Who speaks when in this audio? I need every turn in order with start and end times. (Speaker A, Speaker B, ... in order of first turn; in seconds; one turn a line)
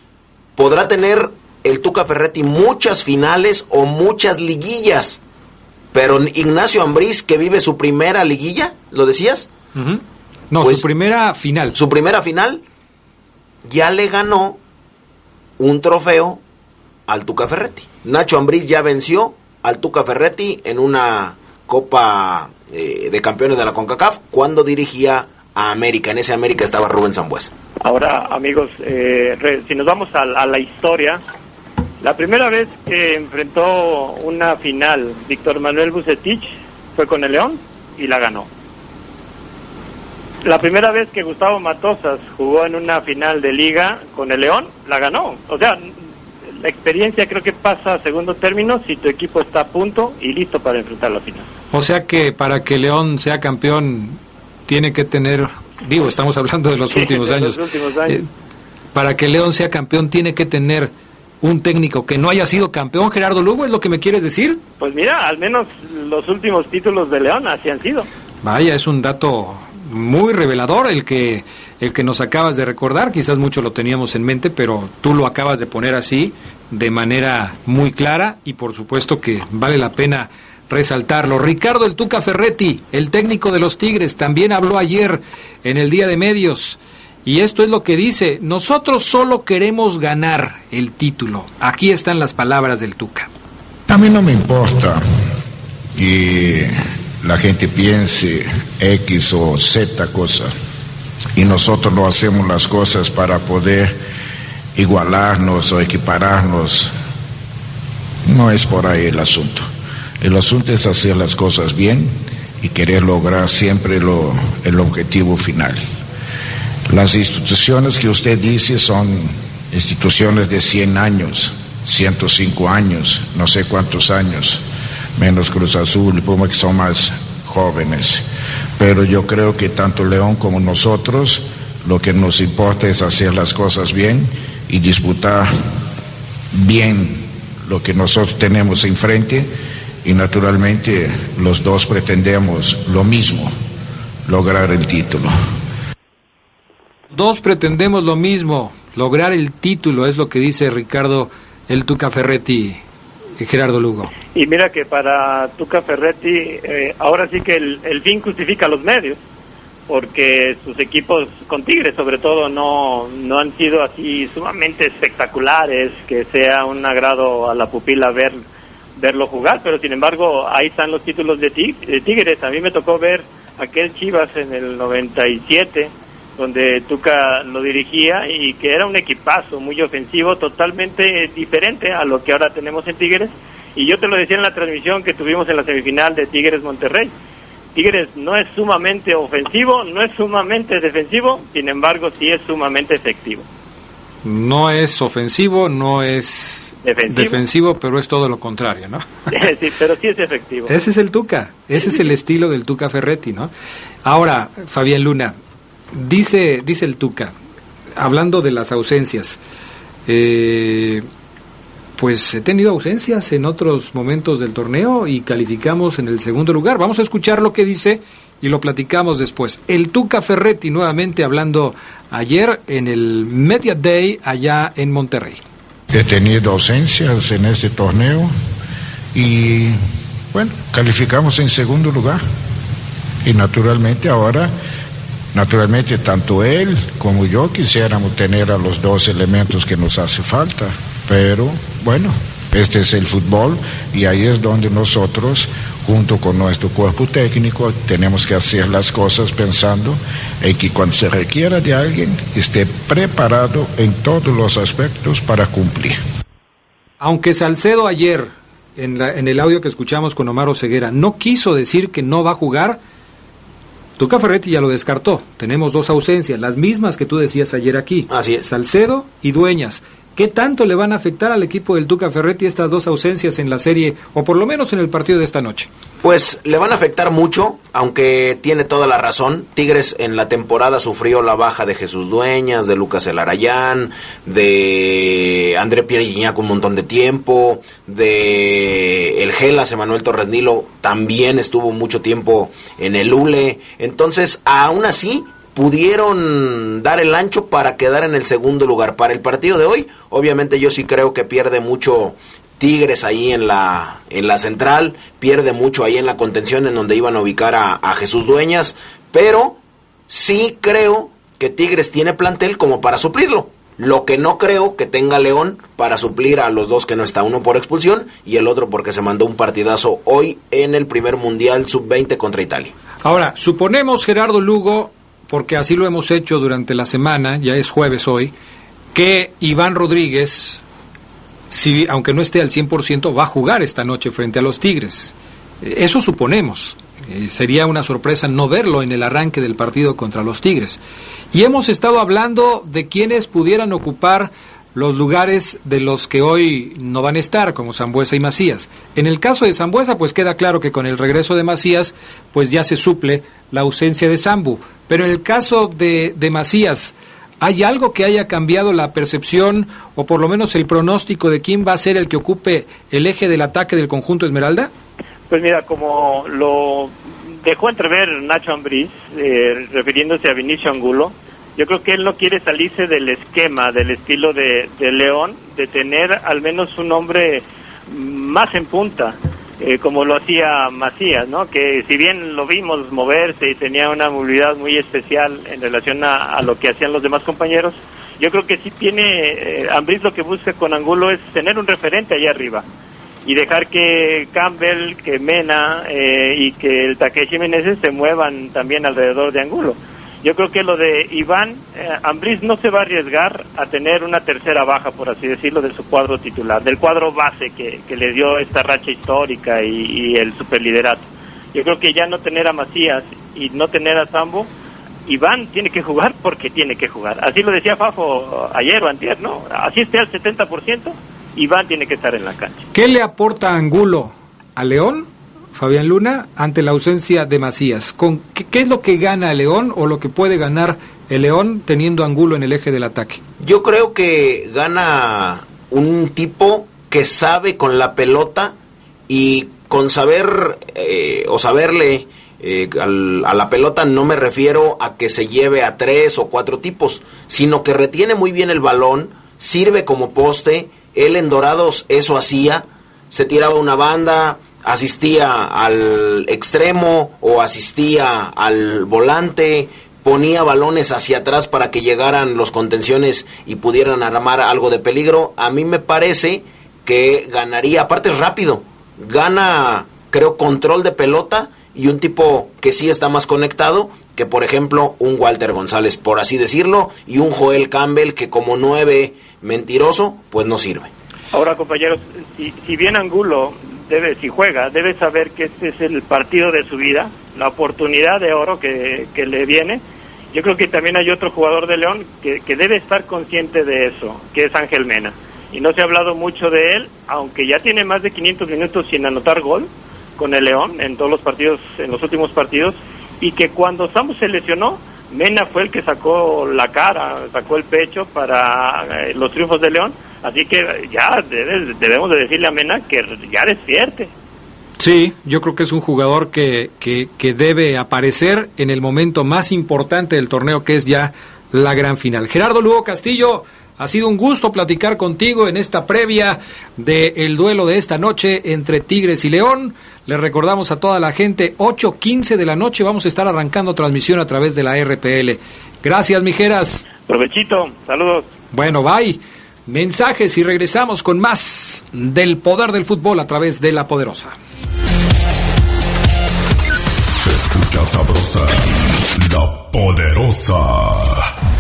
Speaker A: 0.6-5.2
Speaker A: 5.9-9.5
Speaker B: 9.8-11.8
Speaker A: 11.8-12.6
Speaker A: 13.7-14.6
Speaker A: 15.6-16.4
Speaker A: 17.1-27.5
Speaker C: 27.8-31.2
Speaker C: 32.0-38.5
Speaker C: 40.5-45.9
Speaker C: 46.6-51.5
Speaker B: 51.7-58.2
Speaker C: 56.9-58.2
Speaker B: 58.9-64.6
Speaker C: 64.8-68.1
Speaker B: 68.4-93.3
Speaker D: 93.9-95.0
Speaker D: 96.0-100.5
Speaker D: 101.4-104.0
Speaker D: 104.8-106.9
Speaker D: 108.3-109.7
Speaker D: 110.2-115.8
Speaker D: 116.9-124.6
Speaker D: 125.2-128.2
Speaker D: 128.8-135.5
Speaker D: 136.5-139.5
Speaker D: 140.0-143.5
Speaker D: 144.3-145.3
Speaker B: 147.1-152.8
Speaker B: 153.4-154.1
Speaker C: 154.3-159.2
Speaker C: 159.9-168.4
Speaker C: 169.0-187.1
Speaker C: 187.8-193.4
Speaker B: 194.2-199.0
Speaker C: 196.8-197.4
Speaker C: 199.3-200.7
Speaker B: 200.7-203.5
Speaker C: 201.8-202.0
Speaker B: 204.1-205.4
Speaker B: 205.9-207.3
Speaker B: 208.0-209.4
Speaker B: 210.1-211.1
Speaker B: 212.0-225.4
Speaker D: 225.9-228.3
Speaker D: 229.1-229.8
Speaker D: 230.3-232.2
Speaker D: 233.2-234.5
Speaker D: 235.3-256.0
Speaker B: 257.0-262.8
Speaker B: 264.0-275.7
Speaker A: 268.1-268.5
Speaker A: 276.0-309.6
Speaker A: 310.1-322.7
Speaker B: 323.0-328.3
Speaker B: 328.9-330.6
Speaker B: 331.5-340.8
Speaker B: 341.3-364.7
Speaker C: 365.3-392.6
Speaker C: 393.2-414.5
Speaker C: 415.1-422.6
Speaker B: 422.7-433.2
Speaker A: 433.4-438.6
Speaker A: 439.1-480.9
Speaker C: 481.3-489.8
Speaker C: 490.3-514.1
Speaker B: 514.8-536.9
Speaker C: 537.1-538.3
Speaker B: 538.5-544.4
Speaker E: 547.2-551.3